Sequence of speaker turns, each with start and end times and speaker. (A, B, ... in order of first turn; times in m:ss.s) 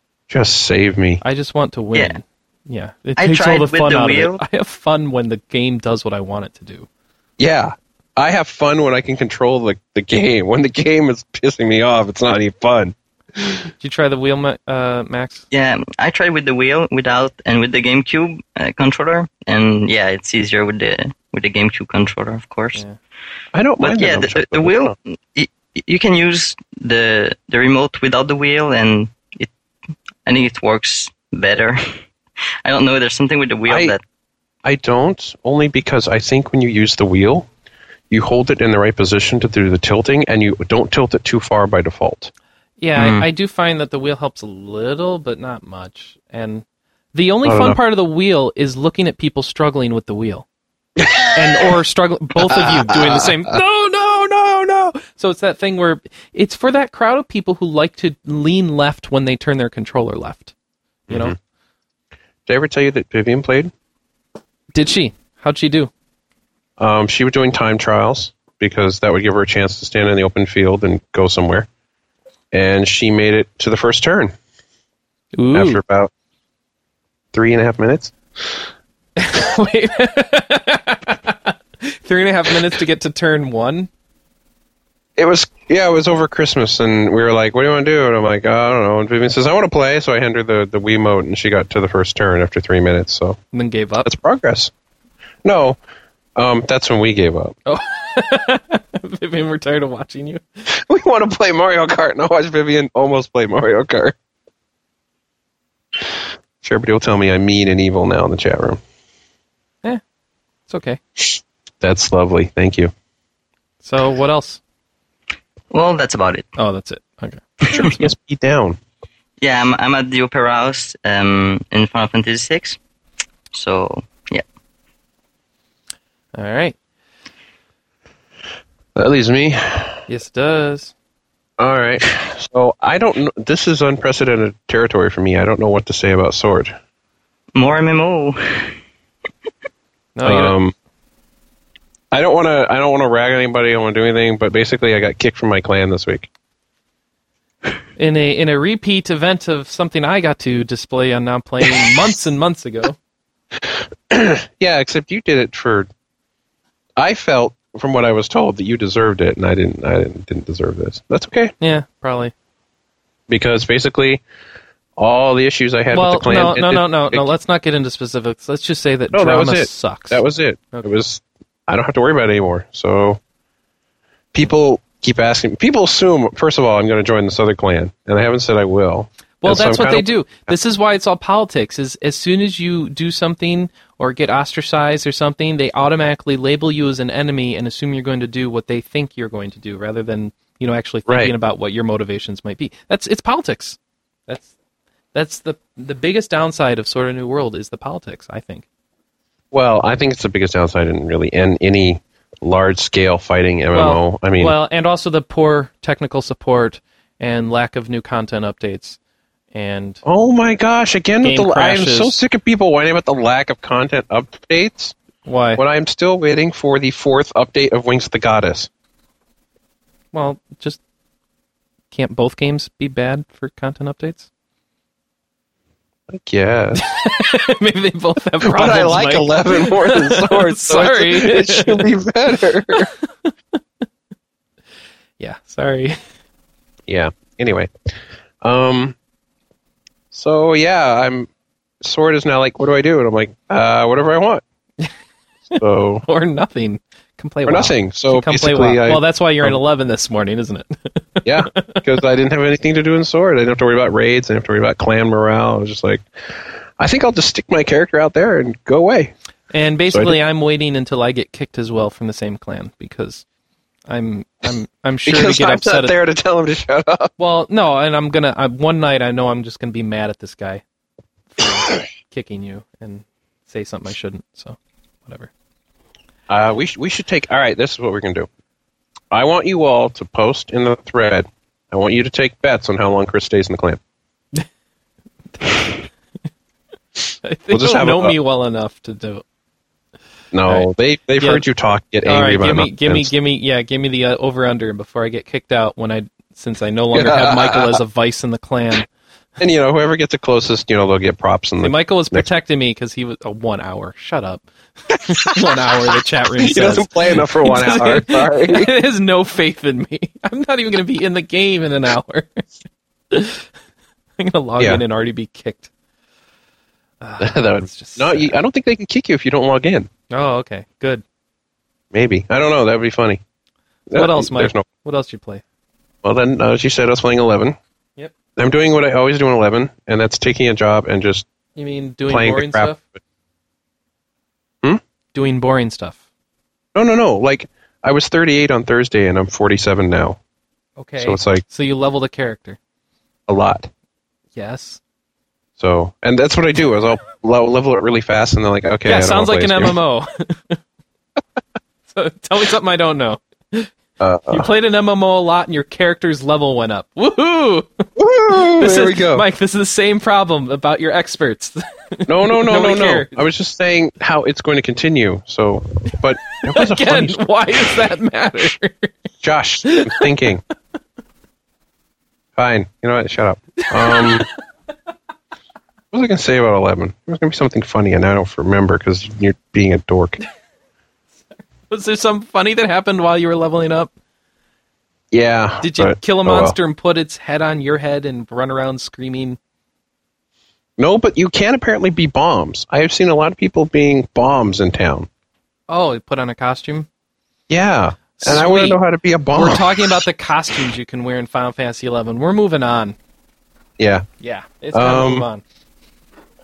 0:00.3-0:01.2 A
0:01.2-0:06.9 B
0:03.2-0:04.4 C
0:07.4-0:13.7 A
0:13.8-0:15.5 B
0:15.5-0:22.8 C
0:23.5-0:25.0 A
0:23.8-0:29.5 C
0:30.3-0:32.0 C
0:32.6-0:34.0 C
0:33.7-0:33.9 A
0:34.6-0:37.5 A
0:38.1-0:42.3 A
0:42.8-0:50.5 B
0:43.0-0:43.3 C
0:47.4-0:47.8 A
0:51.0-0:51.7 A
0:51.3-1:00.5 B
0:52.4-0:53.5 A
1:01.1-1:01.4 A
1:01.1-1:01.4 B
1:02.5-1:03.7 A
1:04.7-1:05.9 B
1:06.8-1:11.7 A
1:12.5-1:14.4 A
1:15.4-1:15.8 B
1:15.5-1:16.1 A
1:17.3-1:18.6 A
1:19.2-1:23.9 B
1:25.2-1:33.4 A
1:33.5-1:34.1 B
1:34.0-1:34.7 A
1:35.4-1:35.8 A
1:36.4-1:37.6 A
1:37.7-1:40.6 B
1:40.7-1:44.2 A
1:46.0-1:48.8 A
1:50.7-1:51.0 B
1:51.8-1:52.9 A
1:53.8-1:54.6 B
1:55.7-1:56.5 C
1:56.6-1:58.0 B
1:57.7-1:58.8 A
1:59.4-2:02.8 C
2:03.5-2:04.4 C
2:06.3-2:06.8 B
2:09.0-2:10.0 A
2:10.1-2:10.9 B
2:11.6-2:16.8 A
2:17.6-2:18.8 C
2:20.2-2:20.6 B
2:20.2-2:20.7 A
2:22.1-2:26.3 A
2:28.0-2:33.0 B
2:33.6-2:35.9 A
2:37.0-2:41.5 A
2:41.6-2:42.3 B
2:43.3-2:44.2 A
2:45.0-2:47.3 A
2:45.9-2:50.2 B
2:49.1-2:53.2 A
2:54.3-3:00.5 A
2:59.4-3:14.5 B
3:11.1-3:11.3 A
3:15.1-3:18.7 B
3:19.5-3:24.6 A
3:23.7-3:29.0 B
3:29.5-3:30.0 B
3:30.0-3:35.0 A
3:31.2-3:32.2 B
3:35.2-3:35.6 B
3:35.6-3:38.7 A
3:40.1-3:40.8 B
3:41.9-3:44.3 B
3:46.1-3:46.8 A
3:46.8-3:51.9 B
3:48.4-3:52.9 A
3:52.7-3:53.3 B
3:55.2-3:56.0 B
3:56.9-3:57.9 A
3:58.4-3:59.0 A
4:00.1-4:01.3 A
4:01.8-4:04.4 A
4:05.5-4:06.0 A
4:06.0-4:11.8 B
4:07.5-4:09.6 A
4:11.2-4:19.1 A
4:19.5-4:23.2 B
4:19.9-4:20.2 A
4:23.9-4:26.0 B
4:25.1-4:27.1 A
4:27.2-4:30.6 B
4:31.4-4:35.3 B
4:36.3-4:38.3 A
4:39.1-4:43.8 A
4:45.4-4:45.8 B
4:47.2-4:49.2 B
4:47.5-4:48.2 A
4:50.3-4:53.1 A
4:50.5-4:51.5 B
4:52.0-4:58.9 B
4:56.9-4:57.8 A
4:59.4-5:02.3 A
5:01.6-5:04.5 B
5:05.0-5:05.5 A
5:05.0-5:12.5 B
5:06.4-5:08.7 A
5:13.1-5:13.5 B
5:14.2-5:15.7 B
5:17.0-5:18.4 B
5:17.2-5:19.9 A
5:20.1-5:21.0 B
5:21.9-5:23.2 A
5:23.9-5:24.6 A
5:23.9-5:25.4 B
5:26.0-5:27.6 A
5:28.4-5:31.3 A
5:31.6-5:32.8 B
5:32.1-5:33.0 A
5:35.1-5:36.0 B
5:36.8-5:40.2 A
5:40.8-5:42.6 B
5:41.0-5:41.4 A
5:43.3-5:43.7 A
5:44.4-5:44.8 B
5:45.6-5:49.8 A
5:48.8-5:50.6 B
5:51.9-5:53.7 B
5:54.0-5:54.5 A
5:54.3-6:03.2 B
5:58.0-5:59.2 A
6:02.1-6:07.2 A
6:06.4-6:08.9 B
6:09.2-6:10.4 A
6:09.6-6:10.1 B
6:12.4-6:14.3 A
6:13.6-6:14.3 B
6:15.9-6:20.2 A
6:21.6-6:23.9 B
6:25.1-6:26.6 A
6:25.6-6:29.4 B
6:30.8-6:35.1 A
6:35.7-6:36.9 B
6:37.5-6:40.0 A
6:38.2-6:38.8 B
6:39.4-6:43.0 B
6:43.8-6:44.1 A
6:44.2-6:45.4 B
6:44.7-6:45.3 A